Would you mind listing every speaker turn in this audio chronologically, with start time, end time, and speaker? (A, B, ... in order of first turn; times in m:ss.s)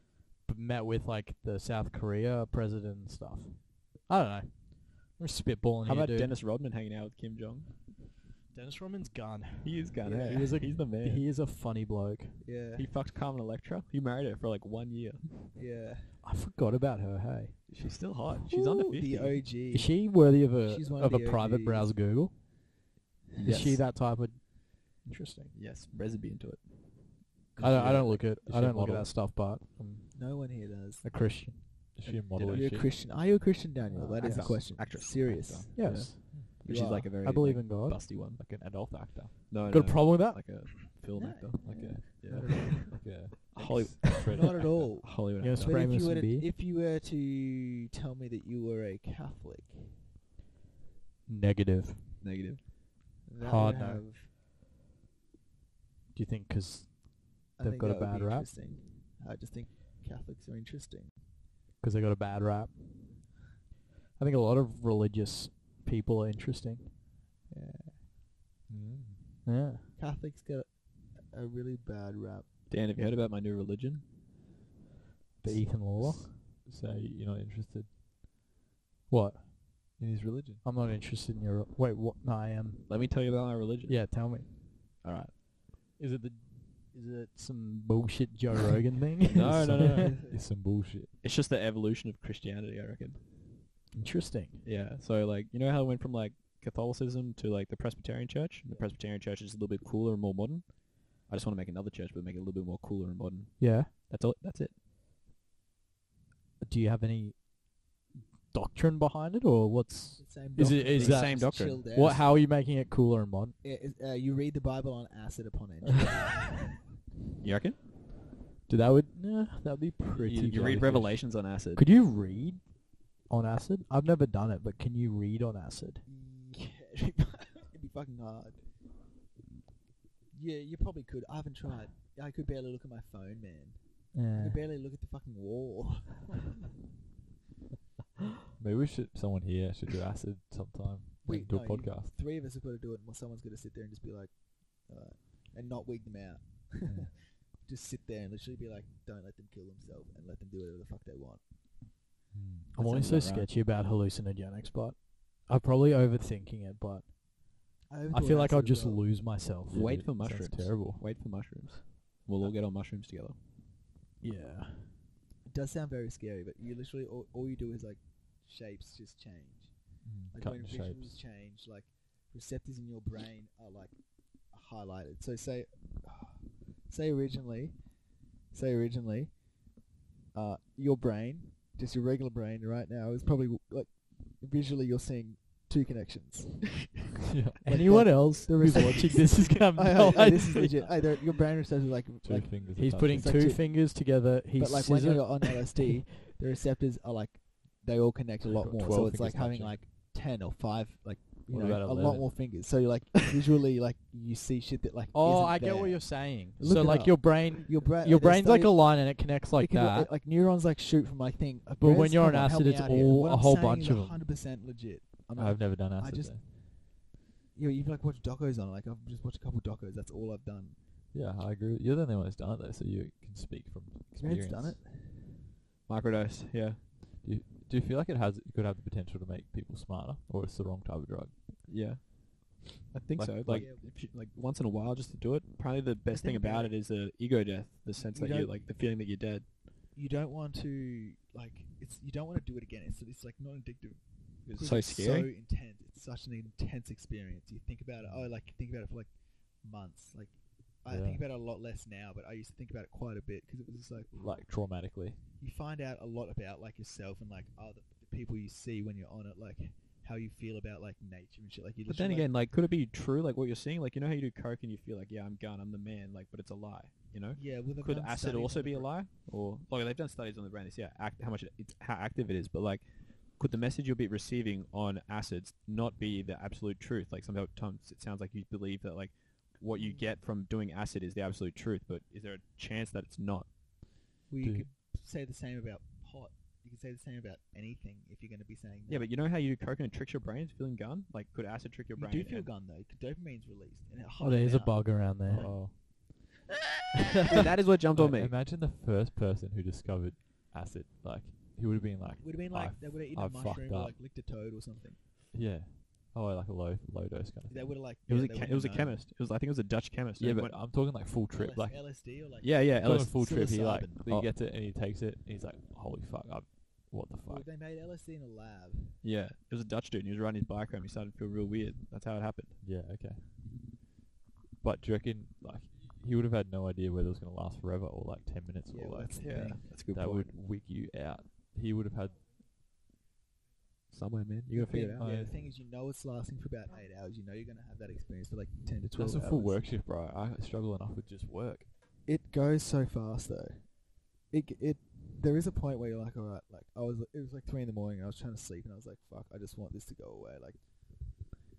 0:00.4-0:06.4 A
0:05.8-0:07.7 B
0:08.5-0:12.4 A
0:09.6-0:11.2 B
0:10.0-0:10.5 C
0:12.4-0:12.9 C
0:12.8-0:15.5 B
0:15.5-0:16.1 C
0:16.2-0:17.6 A
0:17.7-0:19.4 B
0:18.4-0:20.0 C
0:19.7-0:22.4 A
0:20.6-0:22.0 C
0:23.3-0:23.8 B
0:23.4-0:25.5 A
0:25.5-0:26.8 B
0:27.5-0:28.2 B
0:27.6-0:30.2 A
0:28.4-0:29.1 D
0:30.1-0:31.0 C
0:31.0-0:31.6 A
0:32.0-0:32.9 D
0:32.0-0:32.7 B
0:32.5-0:35.7 C
0:33.9-0:34.6 A
0:34.2-0:38.4 B
0:35.3-0:36.5 D
0:35.7-0:36.6 A
0:36.6-0:37.1 C
0:37.2-0:38.0 A
0:38.4-0:39.4 D
0:39.5-0:43.0 B
0:39.7-0:40.7 A
0:41.1-0:42.9 C
0:41.6-0:44.9 D
0:43.5-0:46.0 B
0:44.2-0:49.9 C
0:45.4-0:46.5 A
0:51.3-0:52.0 A
0:52.2-0:52.6 B
0:53.2-0:54.3 C
0:53.4-0:54.0 A
0:56.1-0:58.5 A
0:57.6-1:01.1 C
1:01.8-1:03.0 A
1:04.2-1:06.9 A
1:07.5-1:07.9 C
1:08.7-1:09.4 D
1:09.4-1:09.8 A
1:10.0-1:12.4 C
1:12.7-1:14.0 B
1:15.4-1:16.3 A
1:16.3-1:17.9 D
1:19.1-1:19.5 A
1:20.0-1:20.6 D
1:20.6-1:22.9 A
1:22.9-1:24.0 B
1:23.9-1:24.5 A
1:25.0-1:25.3 B
1:26.0-1:30.1 A
1:29.3-1:30.3 B
1:29.4-1:31.1 D
1:30.0-1:30.3 C
1:31.2-1:33.2 B
1:34.0-1:34.6 A
1:34.6-1:40.6 B
1:41.2-1:44.7 B
1:43.6-1:43.9 A
1:46.6-1:47.4 A
1:48.5-1:53.5 A
1:50.2-1:52.3 C
1:50.8-1:51.8 B
1:53.6-1:56.7 C
1:57.4-1:57.8 B
1:58.7-2:01.1 A
2:00.2-2:01.9 B
2:00.4-2:01.1 D
2:01.7-2:02.6 A
2:03.3-2:06.0 A
2:06.0-2:08.6 C
2:10.3-2:13.8 C
2:14.1-2:14.6 A
2:14.3-2:16.6 C
2:18.6-2:22.1 D
2:21.2-2:27.1 C
2:27.6-2:31.4 C
2:32.3-2:32.8 D
2:32.7-2:37.1 A
2:32.8-2:33.5 B
2:37.9-2:39.0 C
2:38.1-2:40.0 A
2:39.7-2:41.0 D
2:39.7-2:43.3 B
2:44.2-2:44.9 A
2:45.4-2:49.7 C
2:50.0-2:51.2 D
2:50.3-2:53.9 C
2:54.5-2:56.3 C
2:56.9-2:57.8 C
2:58.5-2:59.4 C
3:00.3-3:06.9 C
3:07.3-3:07.6 D
3:07.6-3:13.7 C
3:07.6-3:10.8 A
3:12.2-3:13.4 D
3:12.8-3:15.9 A
3:14.6-3:36.5 C
3:18.4-3:19.8 D
3:21.5-3:22.3 D
3:25.1-3:30.1 A
3:31.8-3:34.2 A
3:35.4-3:36.4 D
3:37.5-3:40.8 C
3:41.1-3:44.8 D
3:44.2-3:45.1 C
3:45.9-3:46.8 B
3:47.2-3:51.3 D
3:51.7-3:59.5 B
3:53.2-3:53.7 D
3:53.5-3:53.9 C
3:56.1-3:56.7 C
3:58.0-3:58.5 C
3:59.9-4:04.0 C
4:04.5-4:05.3 B
4:04.5-4:09.1 C
4:08.0-4:08.3 D
4:09.6-4:14.4 C
4:10.9-4:11.2 D
4:14.1-4:15.2 D
4:15.4-4:22.3 C
4:21.9-4:43.5 B
4:27.3-4:28.9 C
4:39.8-4:40.0 C
4:44.3-4:49.0 C
4:44.4-4:44.7 D
4:48.9-4:52.5 B
4:52.0-4:55.5 C
4:54.2-4:55.5 A
4:55.3-4:56.0 D
4:57.3-4:58.3 B
4:57.9-5:04.0 D
5:02.2-5:05.0 C
5:05.3-5:07.7 D
5:07.5-5:09.0 C
5:08.1-5:10.5 B
5:10.2-5:12.0 D
5:11.3-5:14.0 C
5:12.4-5:14.3 B
5:12.6-5:17.5 D
5:17.3-5:19.0 C
5:19.0-5:22.6 B
5:22.6-5:23.3 D
5:24.6-5:32.2 D
5:28.7-5:29.6 C
5:29.2-5:30.3 B
5:33.9-5:35.0 B
5:34.5-5:39.6 C
5:35.0-5:35.4 D
5:38.9-5:41.7 D
5:42.0-5:43.7 C
5:44.3-5:50.6 C